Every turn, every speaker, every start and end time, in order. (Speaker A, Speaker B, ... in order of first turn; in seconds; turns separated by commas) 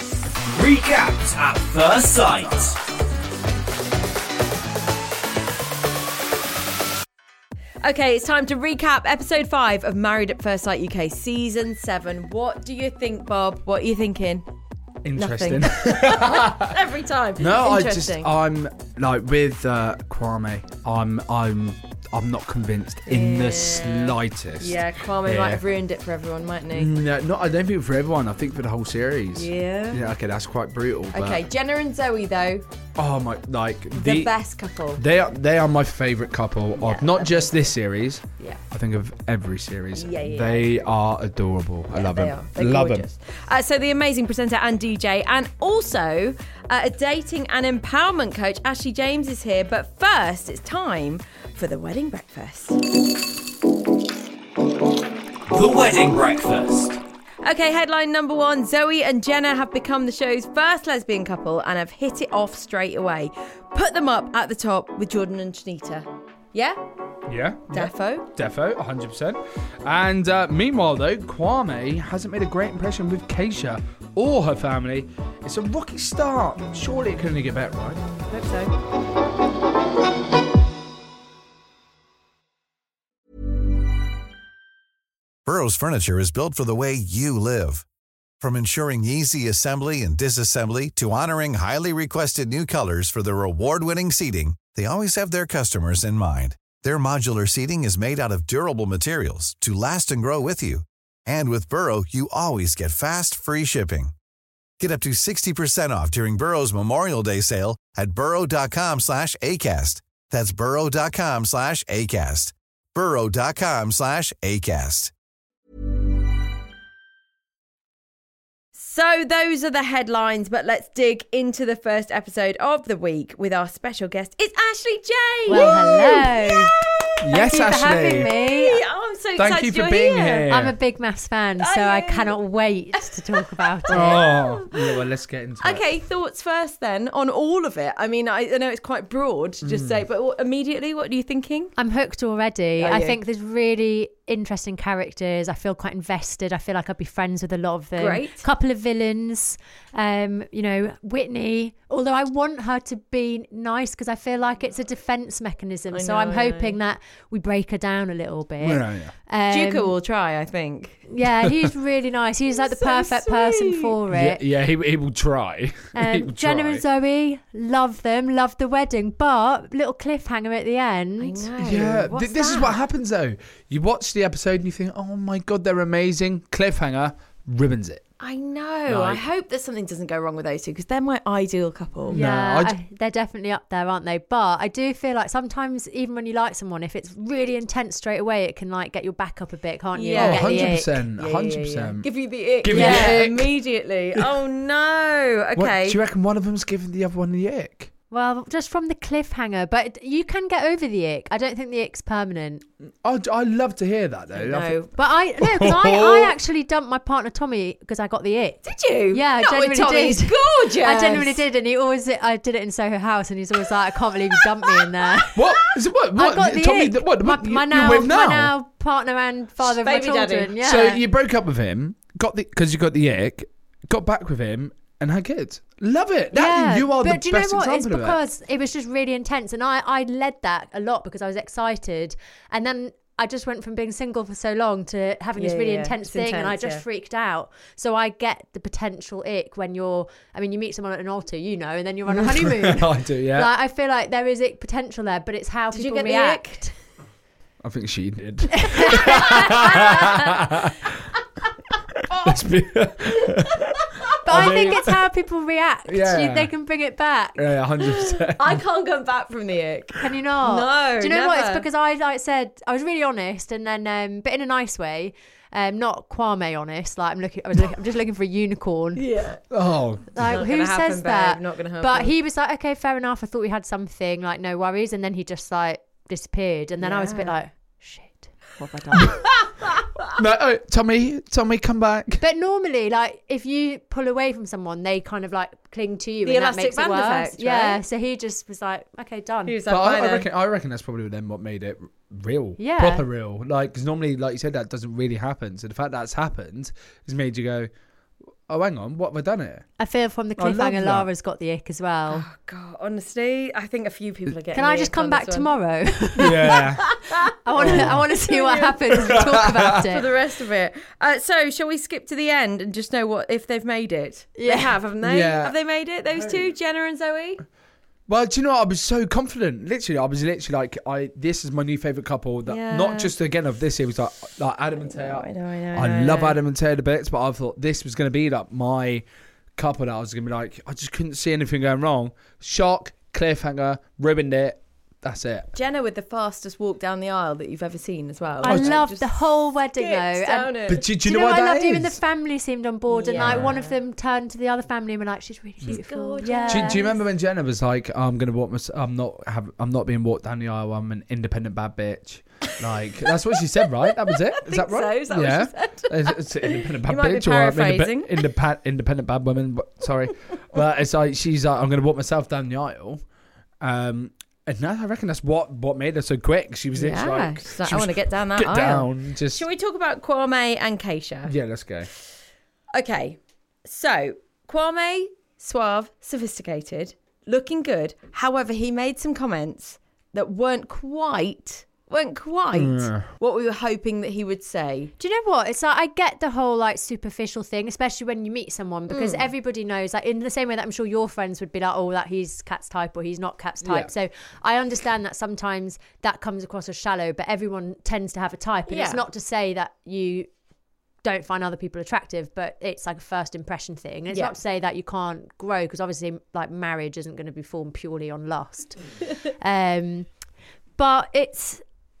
Speaker A: 0.6-2.7, Speaker B: 7.8-14.4, Speaker C: 15.0-16.7, Speaker B: 15.2-18.3, Speaker C: 17.4-25.6, Speaker B: 23.1-26.9, Speaker C: 26.7-31.4, Speaker B: 29.3-30.0, Speaker B: 31.1-32.6, Speaker C: 33.0-34.3, Speaker B: 33.9-35.0, Speaker C: 35.0-43.1, Speaker B: 36.8-37.6, Speaker B: 39.9-40.9, Speaker B: 41.9-52.8, Speaker A: 55.5-57.0, Speaker B: 57.4-66.8, Speaker C: 67.3-78.0, Speaker B: 67.7-68.3, Speaker B: 78.1-78.7, Speaker D: 85.5-87.8, Speaker D: 88.4-104.1, Speaker D: 104.8-115.1, Speaker B: 118.7-126.8, Speaker E: 125.5-126.7, Speaker C: 125.5-125.8, Speaker C: 127.2-128.3, Speaker E: 127.3-128.8, Speaker B: 128.1-130.5, Speaker C: 129.3-130.8, Speaker E: 130.5-134.2, Speaker B: 131.6-132.4, Speaker B: 133.6-134.7, Speaker C: 133.9-135.8, Speaker B: 135.6-141.7, Speaker C: 139.6-140.0, Speaker E: 141.8-159.9, Speaker B: 142.8-143.2, Speaker B: 147.9-148.4, Speaker B: 155.9-156.8, Speaker C: 158.6-159.1, Speaker B: 159.5-161.0, Speaker E: 161.1-164.4, Speaker B: 162.6-163.9, Speaker C: 164.1-166.8, Speaker E: 165.9-171.4, Speaker B: 171.2-172.8, Speaker C: 171.6-178.0, Speaker B: 178.2-182.2, Speaker C: 178.9-179.2, Speaker C: 182.1-182.8, Speaker E: 182.1-191.0, Speaker B: 189.9-196.0, Speaker C: 190.2-192.1, Speaker C: 192.6-193.6, Speaker E: 192.7-193.2, Speaker C: 195.6-197.9, Speaker E: 198.1-202.6, Speaker C: 203.0-204.8, Speaker B: 204.3-204.9, Speaker E: 204.9-215.4, Speaker C: 205.4-206.4, Speaker B: 208.6-211.4, Speaker B: 214.7-215.2, Speaker C: 215.3-218.5, Speaker E: 216.1-221.0, Speaker B: 219.6-220.5, Speaker C: 220.6-228.2, Speaker E: 226.3-246.7, Speaker B: 235.4-236.8, Speaker C: 242.1-243.5, Speaker B: 245.7-246.7, Speaker C: 247.6-250.0, Speaker E: 248.7-249.8, Speaker B: 249.3-250.1, Speaker B: 252.1-252.4, Speaker C: 252.2-255.0, Speaker E: 254.2-257.4, Speaker C: 255.9-256.5, Speaker C: 257.4-258.6, Speaker B: 258.4-261.6, Speaker E: 260.0-269.0, Speaker B: 268.9-269.4, Speaker C: 269.5-270.2, Speaker E: 270.1-279.2, Speaker B: 270.2-272.1, Speaker B: 276.8-277.4, Speaker B: 279.5-279.9, Speaker C: 280.1-282.2, Speaker E: 282.2-289.6, Speaker B: 286.2-287.8, Speaker B: 289.4-290.3, Speaker C: 289.7-297.7, Speaker E: 292.6-293.0, Speaker C: 298.5-299.6, Speaker E: 299.8-302.2, Speaker C: 300.4-301.1, Speaker B: 302.1-305.5, Speaker E: 304.5-306.6, Speaker C: 306.2-306.9, Speaker B: 306.9-308.8, Speaker E: 307.4-310.1, Speaker C: 307.6-308.0, Speaker C: 309.1-309.6, Speaker B: 309.7-317.4, Speaker E: 314.4-314.8, Speaker C: 315.0-315.6, Speaker C: 316.1-316.4, Speaker C: 318.1-329.0, Speaker B: 322.4-323.1, Speaker B: 324.7-326.4, Speaker C: 329.6-335.5, Speaker B: 335.5-340.9, Speaker E: 338.4-340.5, Speaker C: 338.4-338.8, Speaker C: 340.7-342.0, Speaker E: 341.0-346.8, Speaker B: 342.9-343.7, Speaker C: 343.1-343.6, Speaker B: 345.7-347.0, Speaker C: 346.5-363.0, Speaker B: 354.4-358.1, Speaker C: 363.6-369.4, Speaker B: 366.7-371.3, Speaker C: 371.2-371.9, Speaker B: 372.7-384.9, Speaker C: 382.5-383.1, Speaker E: 385.0-400.3, Speaker B: 388.9-389.2, Speaker C: 393.6-393.9, Speaker B: 398.7-399.0, Speaker E: 401.0-410.1, Speaker E: 410.8-411.6